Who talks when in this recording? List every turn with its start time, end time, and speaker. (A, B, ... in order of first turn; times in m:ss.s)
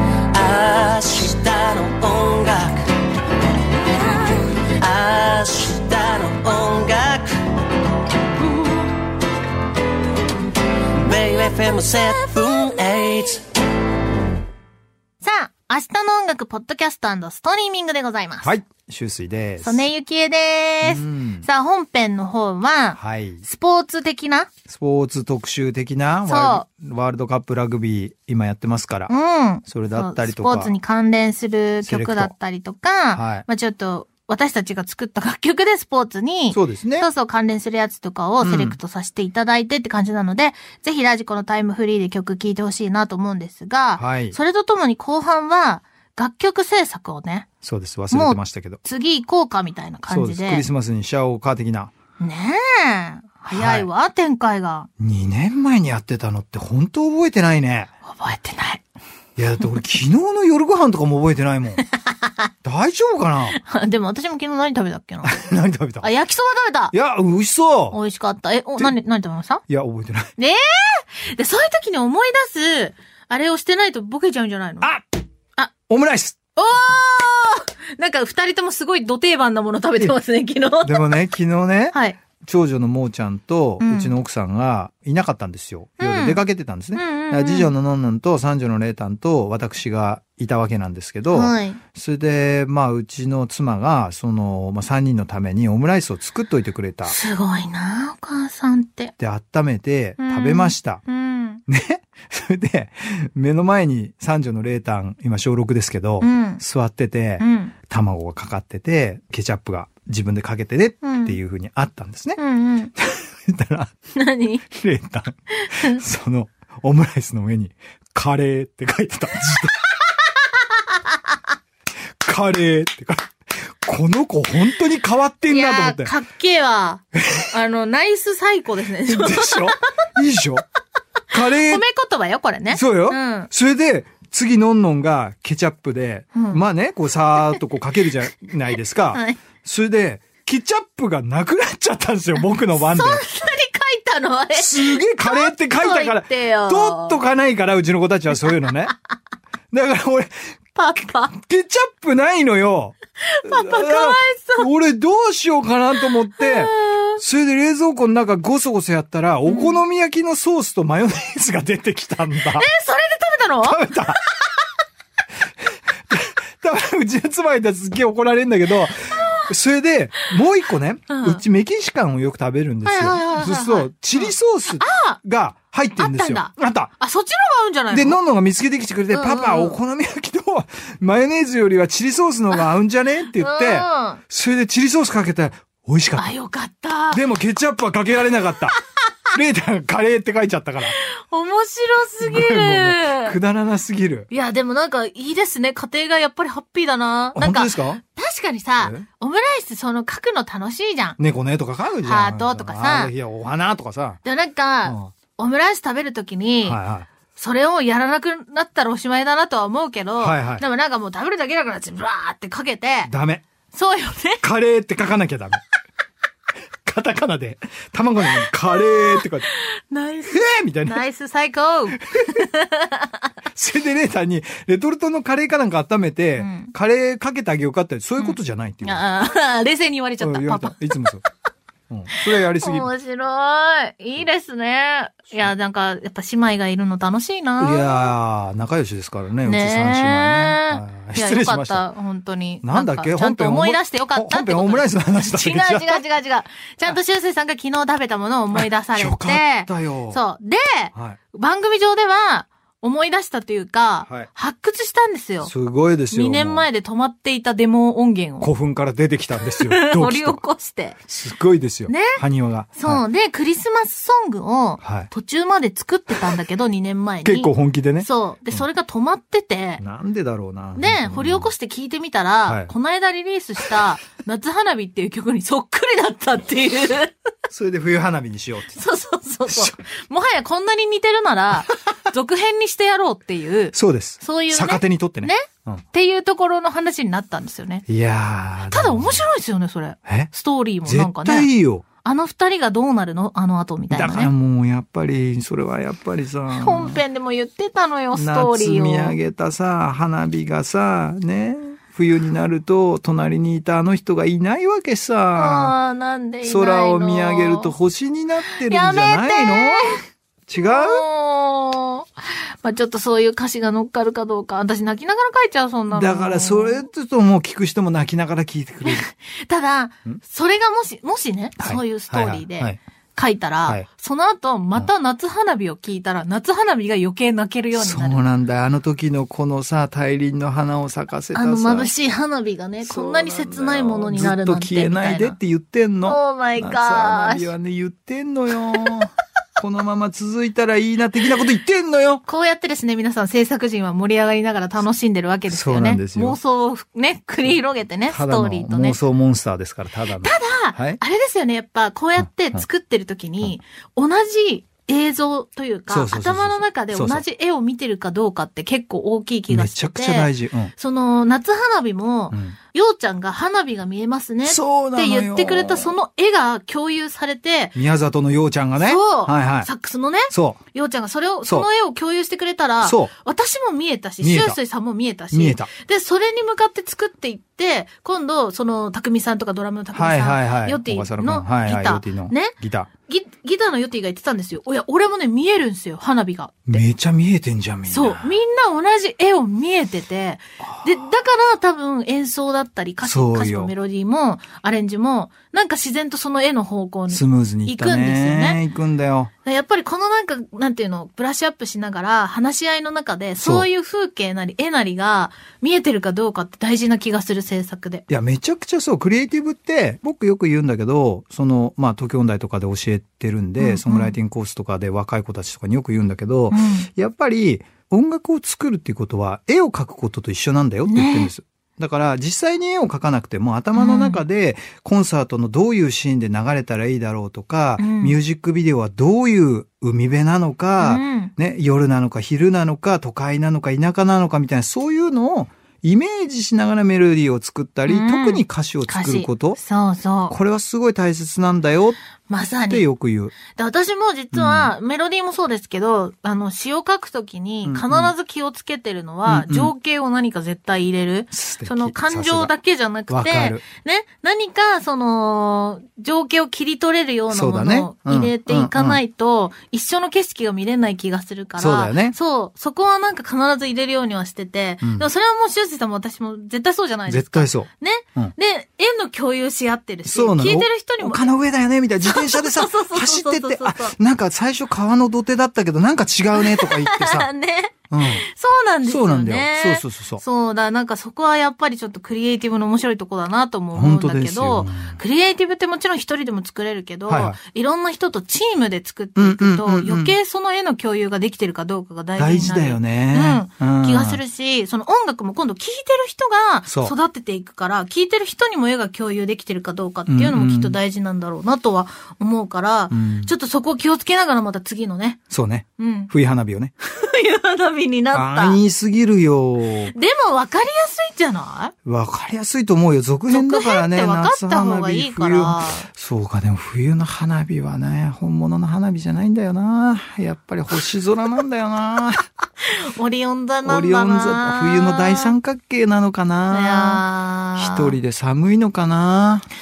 0:00.3-0:02.9 A
0:04.6-0:07.3 A
0:10.9-0:13.4 A
0:15.2-0:18.5 B
0:18.4-0:19.9 C
0:19.6-0:24.5 B
0:20.8-0:21.5 C
0:23.0-0:23.4 C
0:24.7-0:29.1 C
0:26.2-0:26.6 B
0:29.1-0:47.5 B
0:29.7-0:30.7 C
0:31.8-0:32.3 C
0:33.1-0:33.4 C
0:36.5-0:37.1 C
0:38.4-0:38.8 C
0:44.0-0:44.4 C
0:47.6-0:48.8 C
0:48.1-0:50.6 B
0:50.1-0:51.9 C
0:52.2-0:54.9 B
0:53.5-0:53.9 C
0:55.0-0:57.9 C
0:58.0-0:58.8 B
0:59.4-1:01.8 C
1:01.8-1:02.3 B
1:02.6-1:03.6 C
1:03.5-1:05.4 B
1:05.2-1:06.1 C
1:06.0-1:06.9 B
1:06.9-1:08.0 C
1:07.9-1:09.6 B
1:09.7-1:10.3 C
1:10.4-1:14.9 B
1:15.9-1:16.4 C
1:16.6-1:21.1 B
1:20.8-1:37.2 C
1:21.9-1:22.2 B
1:23.8-1:24.2 B
1:26.0-1:26.4 B
1:26.9-1:27.7 B
1:31.3-1:31.8 B
1:37.0-1:39.1 B
1:39.2-1:41.0 C
1:40.2-1:41.6 B
1:41.7-1:52.4 C
1:46.2-1:46.6 B
1:47.4-1:47.7 B
1:51.0-1:51.4 B
1:52.4-1:52.9 B
1:53.0-1:53.9 C
1:54.2-1:54.6 B
1:54.7-1:59.7 C
1:55.6-1:56.0 B
2:00.8-2:01.2 B
2:02.2-2:06.1 C
2:05.5-2:09.8 B
2:07.2-2:07.5 C
2:09.0-2:10.6 C
2:11.3-2:11.8 C
2:11.4-2:13.5 B
2:12.7-2:23.2 C
2:16.3-2:16.6 B
2:19.1-2:19.4 B
2:22.8-2:27.2 B
2:24.5-2:28.9 C
2:29.7-2:30.6 C
2:30.7-2:31.3 B
2:31.3-2:42.7 C
2:33.2-2:34.7 B
2:36.4-2:37.2 B
2:39.4-2:39.8 B
2:42.5-2:43.8 B
2:43.6-2:44.2 C
2:46.1-2:56.9 C
2:51.1-2:51.4 B
2:52.8-2:55.2 B
2:56.0-2:58.2 B
2:57.9-3:06.4 C
2:59.1-2:59.8 B
3:03.3-3:04.2 B
3:06.1-3:07.2 B
3:07.1-3:08.8 C
3:09.3-3:10.9 C
3:10.9-3:13.4 B
3:12.2-3:14.3 C
3:14.3-3:21.2 B
3:17.3-3:18.0 C
3:21.2-3:24.2 C
3:22.0-3:23.1 B
3:24.2-3:26.8 B
3:24.8-3:25.1 C
3:26.6-3:27.1 C
3:27.3-3:33.1 B
3:30.2-3:30.6 C
3:33.1-3:33.4 C
3:33.7-3:34.4 B
3:34.4-3:35.6 C
3:36.8-3:39.5 C
3:38.3-3:43.3 B
3:40.3-3:41.0 C
3:42.0-3:42.4 C
3:43.5-3:49.1 C
3:46.4-3:46.7 B
3:48.2-3:51.0 B
3:50.2-3:51.2 C
3:51.9-3:52.9 C
3:52.1-3:58.1 B
3:57.6-4:01.8 C
3:59.4-4:15.5 B
4:02.6-4:06.0 C
4:08.5-4:10.2 C
4:15.4-4:16.6 C
4:16.1-4:18.5 B
4:18.4-4:20.4 C
4:19.4-4:21.0 B
4:21.1-4:23.0 C
4:21.9-4:22.2 B
4:22.8-4:29.8 B
4:24.8-4:25.1 C
4:27.2-4:28.6 C
4:29.8-4:31.5 C
4:30.8-4:37.1 B
4:32.4-4:32.7 C
4:37.5-4:38.8 C
4:38.7-4:47.8 B
4:39.5-4:39.8 C
4:43.7-4:45.8 C
4:47.9-4:49.3 C
4:48.7-4:51.5 B
4:50.8-4:51.8 C
4:52.0-4:54.3 B
4:53.9-4:57.0 C
4:56.5-4:59.2 B
4:58.1-5:05.7 C
5:05.4-5:07.7 B
5:06.4-5:11.0 C
5:08.5-5:10.0 B
5:10.6-5:16.9 B
5:15.9-5:19.0 C
5:18.8-5:28.2 B
5:21.6-5:22.8 C
5:27.7-5:31.9 C
5:31.3-5:35.4 B
5:32.8-5:42.2 C
5:36.0-5:37.5 B
5:38.7-5:39.0 B
5:42.2-5:49.0 B
5:45.5-5:46.4 C
5:47.4-5:51.0 C
5:50.2-6:07.8 B
5:52.2-5:52.6 C
5:55.9-5:57.2 C
5:59.5-6:00.7 C
6:02.3-6:02.6 C
6:04.4-6:05.9 C
6:07.8-6:09.7 C
6:08.8-6:26.8 B
6:10.3-6:10.6 C
6:12.8-6:13.1 C
6:14.2-6:14.6 C
6:15.3-6:15.7 C
6:19.9-6:22.9 C
6:26.7-6:28.4 C
6:27.8-6:38.6 B
6:30.6-6:30.9 C
6:33.0-6:33.7 C
6:37.1-6:39.3 C
6:39.4-6:48.0 B
6:43.4-6:43.7 C
6:48.1-7:19.6 C
6:53.6-6:54.1 B
6:56.5-6:56.9 B
7:00.9-7:01.3 B
7:03.7-7:04.2 B
7:07.8-7:08.2 B
7:10.8-7:11.3 B
7:17.9-7:20.4 B
7:20.3-7:22.0 C
7:22.3-7:22.8 B
7:22.7-7:23.4 C
7:23.4-7:51.3 B
7:24.3-7:24.7 C
7:27.6-7:28.1 C
7:29.2-7:29.7 C
7:31.3-7:32.5 C
7:33.1-7:33.6 C
7:37.3-7:39.0 C
7:41.6-7:42.2 C
7:44.8-7:45.1 C
7:47.1-7:48.3 C
7:50.0-7:57.3 C
7:52.0-7:53.9 B
7:56.3-8:25.2 B
7:57.9-7:58.2 C
7:58.8-8:00.2 C
8:03.7-8:05.0 C
8:07.1-8:07.4 C
8:09.2-8:10.2 C
8:12.2-8:14.2 C
8:16.7-8:16.9 C
8:20.0-8:20.8 C
8:22.9-8:23.3 C
8:25.3-8:26.7 C
8:25.8-8:26.1 B
8:26.9-8:28.6 B
8:28.1-8:29.9 C
8:29.9-8:31.7 B
8:31.8-8:42.2 C
8:33.3-8:35.9 B
8:42.6-8:45.3 B
8:43.6-8:47.0 C
8:46.5-8:48.0 B
8:47.5-8:49.4 C